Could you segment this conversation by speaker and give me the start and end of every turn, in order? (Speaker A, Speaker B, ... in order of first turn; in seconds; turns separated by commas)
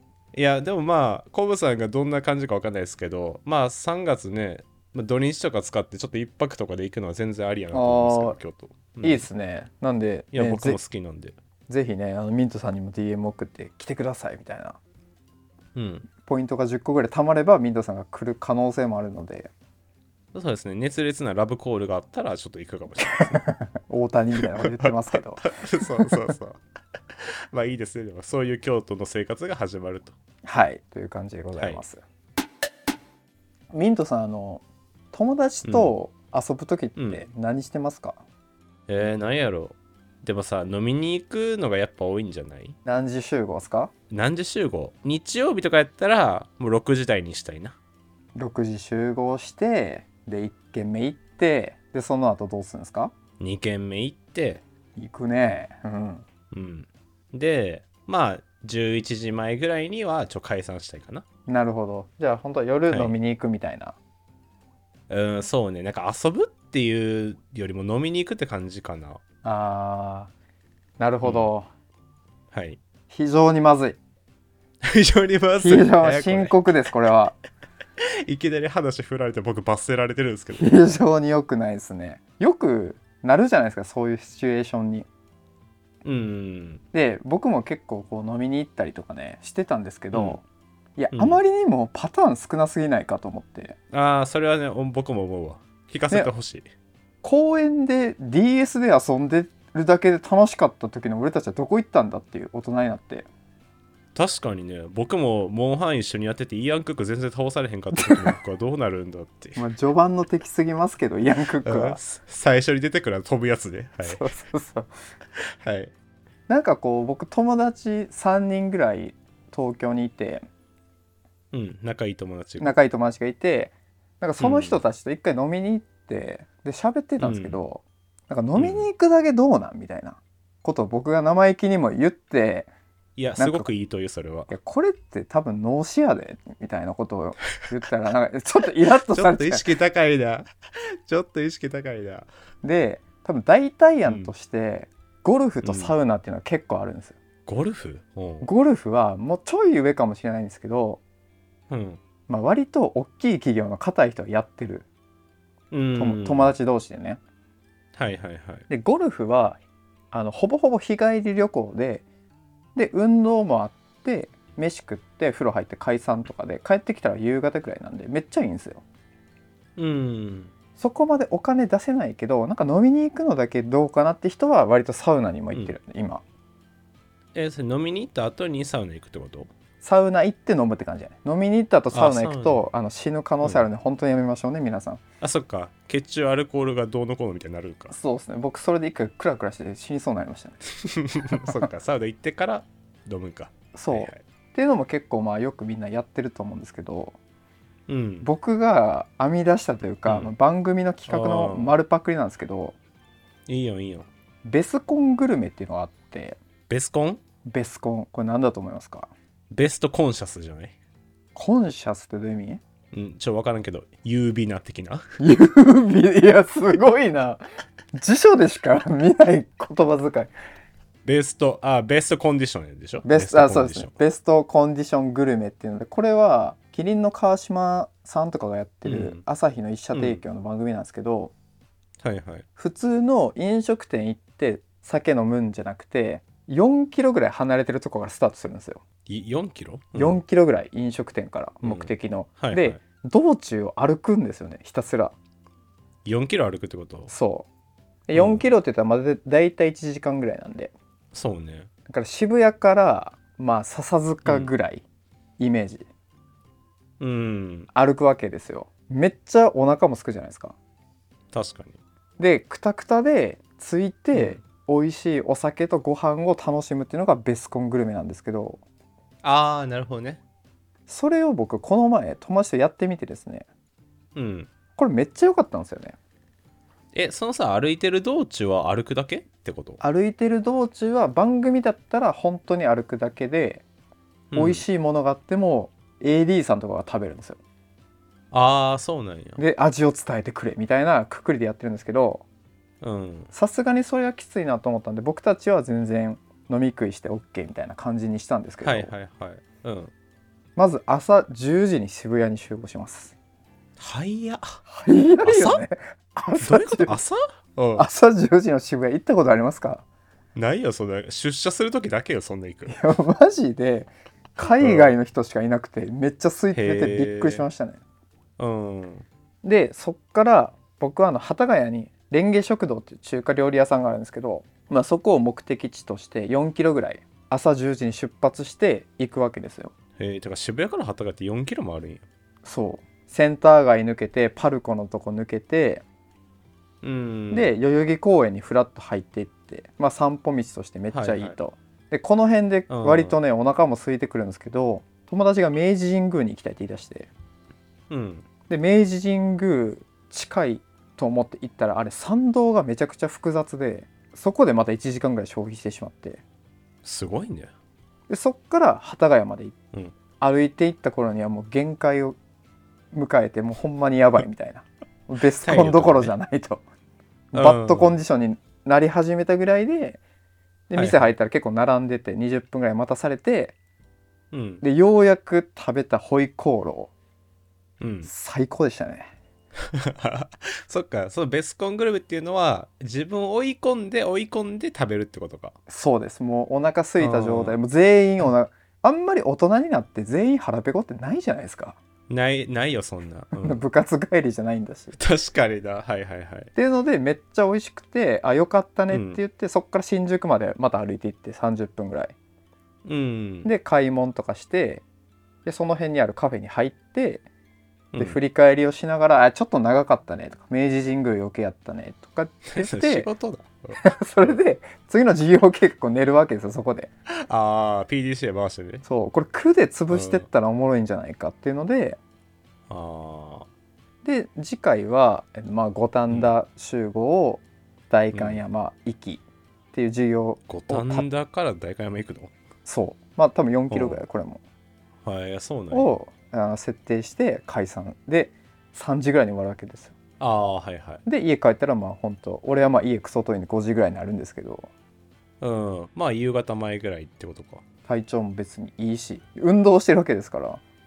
Speaker A: 0.3-9.3, Speaker B: 7.7-8.4, Speaker B: 9.0-10.8, Speaker A: 10.3-11.3, Speaker B: 11.7-14.8, Speaker A: 15.7-16.1, Speaker B: 16.1-19.5, Speaker A: 20.3-23.4, Speaker B: 23.3-26.3, Speaker A: 24.8-26.6, Speaker A: 27.1-30.1, Speaker B: 30.4-32.0, Speaker B: 33.7-38.2, Speaker A: 35.6-35.9, Speaker A: 37.0-37.2, Speaker A: 38.9-42.8, Speaker B: 42.8-43.9, Speaker A: 44.1-47.8, Speaker B: 48.4-53.1, Speaker A: 53.4-54.6, Speaker B: 55.0-56.2, Speaker A: 56.5-61.2, Speaker B: 61.5-64.0, Speaker A: 62.9-63.1, Speaker A: 65.1-69.2, Speaker B: 69.4-70.3, Speaker B: 71.0-71.7, Speaker A: 71.2-71.5, Speaker A: 72.5-72.8, Speaker B: 73.1-74.0, Speaker A: 74.8-76.5, Speaker B: 75.6-77.3, Speaker A: 78.0-80.8, Speaker B: 80.5-85.1, Speaker A: 86.0-86.8, Speaker B: 86.9-90.4, Speaker A: 90.1-90.4, Speaker B: 91.0-93.8, Speaker A: 91.1-91.4, Speaker A: 93.9-96.7, Speaker B: 97.2-103.3, Speaker A: 104.1-109.6, Speaker B: 107.9-108.3, Speaker B: 109.5-112.0, Speaker A: 111.6-114.2, Speaker B: 114.0-114.9, Speaker A: 115.3-115.9, Speaker B: 116.5-120.4, Speaker A: 121.5-122.8, Speaker B: 122.6-132.7, Speaker A: 124.4-124.8, Speaker A: 127.2-127.6, Speaker A: 128.6-128.8, Speaker A: 133.2-134.5, Speaker B: 133.4-133.7, Speaker B: 134.5-139.7, Speaker A: 139.0-140.5, Speaker A: 141.1-142.3, Speaker B: 142.6-147.2, Speaker A: 144.0-144.3, Speaker A: 145.6-145.9, Speaker A: 147.4-148.5, Speaker B: 148.4-151.0, Speaker A: 151.7-152.0, Speaker B: 152.3-154.8, Speaker A: 155.7-156.5, Speaker B: 155.9-157.2, Speaker A: 157.9-158.7, Speaker B: 158.7-159.6, Speaker B: 160.1-162.0, Speaker B: 162.8-168.8, Speaker A: 169.8-170.5, Speaker B: 170.8-176.2, Speaker A: 177.3-179.5, Speaker B: 179.8-185.0, Speaker A: 181.9-182.6, Speaker A: 185.2-187.9, Speaker B: 187.9-190.6, Speaker A: 190.8-194.2, Speaker B: 191.3-191.7, Speaker B: 193.7-197.2, Speaker A: 197.9-198.3, Speaker B: 198.2-202.8, Speaker A: 200.1-200.3, Speaker A: 201.1-201.7, Speaker A: 203.5-204.1, Speaker B: 204.4-206.4, Speaker A: 206.7-207.2, Speaker B: 207.4-209.1, Speaker A: 209.5-210.7, Speaker B: 211.3-212.6, Speaker A: 212.9-215.0, Speaker B: 215.2-217.4, Speaker B: 217.9-220.3, Speaker A: 221.0-223.9, Speaker B: 223.0-231.3, Speaker A: 228.8-229.2, Speaker A: 229.9-230.2, Speaker A: 232.0-232.4, Speaker B: 232.6-238.8, Speaker A: 239.1-240.2, Speaker B: 239.9-245.1, Speaker A: 241.6-242.8, Speaker A: 246.0-247.1, Speaker B: 247.1-247.5, Speaker B: 248.1-250.7, Speaker A: 248.1-248.4, Speaker A: 251.1-251.7, Speaker B: 251.9-254.8, Speaker A: 254.2-254.5, Speaker B: 255.4-255.9, Speaker A: 257.0-257.7, Speaker B: 257.7-260.5, Speaker A: 261.3-261.8, Speaker B: 262.2-268.6, Speaker A: 264.1-264.4, Speaker A: 269.2-270.2, Speaker B: 270.9-273.4, Speaker A: 274.1-274.5, Speaker B: 274.8-275.9, Speaker A: 276.9-279.8, Speaker B: 279.8-283.6, Speaker A: 284.3-284.6, Speaker B: 284.3-287.4, Speaker A: 288.3-289.4, Speaker B: 289.4-292.2, Speaker A: 292.8-293.3, Speaker B: 293.3-298.9, Speaker A: 298.6-299.9, Speaker B: 300.6-303.1, Speaker A: 303.8-304.6, Speaker B: 304.7-306.9, Speaker A: 305.2-305.6, Speaker A: 306.4-307.9, Speaker B: 307.8-309.8, Speaker A: 310.3-312.8, Speaker B: 312.7-317.8, Speaker A: 314.4-314.9, Speaker A: 316.5-317.5, Speaker A: 318.4-319.1, Speaker B: 319.4-329.7, Speaker A: 330.0-332.0, Speaker B: 332.4-335.8, Speaker A: 336.8-337.5, Speaker B: 337.3-347.1, Speaker A: 340.9-341.4, Speaker A: 342.7-343.2, Speaker A: 347.9-348.2, Speaker B: 348.5-356.2, Speaker A: 356.8-357.5, Speaker B: 358.1-359.5, Speaker B: 360.2-362.2, Speaker B: 362.9-366.6, Speaker A: 365.4-366.1, Speaker B: 367.3-370.0, Speaker A: 367.3-368.0, Speaker B: 370.7-373.5, Speaker A: 370.7-371.1, Speaker A: 374.3-374.6, Speaker B: 374.6-376.9, Speaker A: 377.8-378.1, Speaker B: 378.0-379.1, Speaker A: 379.7-385.5, Speaker B: 385.7-391.8, Speaker A: 387.0-387.6, Speaker A: 392.1-393.6, Speaker B: 393.4-394.9, Speaker A: 394.9-396.5, Speaker B: 396.5-402.1, Speaker A: 398.9-399.2, Speaker A: 402.8-403.5, Speaker B: 403.4-404.8, Speaker B: 405.4-407.2, Speaker A: 407.9-408.2, Speaker B: 408.0-413.1, Speaker A: 412.5-414.4, Speaker B: 413.8-416.9, Speaker A: 417.1-418.8, Speaker B: 418.8-422.0, Speaker A: 419.9-420.2, Speaker A: 422.7-423.5, Speaker B: 424.0-429.2, Speaker A: 428.1-428.4, Speaker B: 429.7-431.1, Speaker A: 430.5-432.3, Speaker B: 432.6-434.4, Speaker A: 433.7-434.0, Speaker A: 435.0-435.9, Speaker B: 435.7-439.9, Speaker A: 440.2-441.0, Speaker B: 441.0-444.7, Speaker A: 445.4-447.6, Speaker B: 447.9-450.6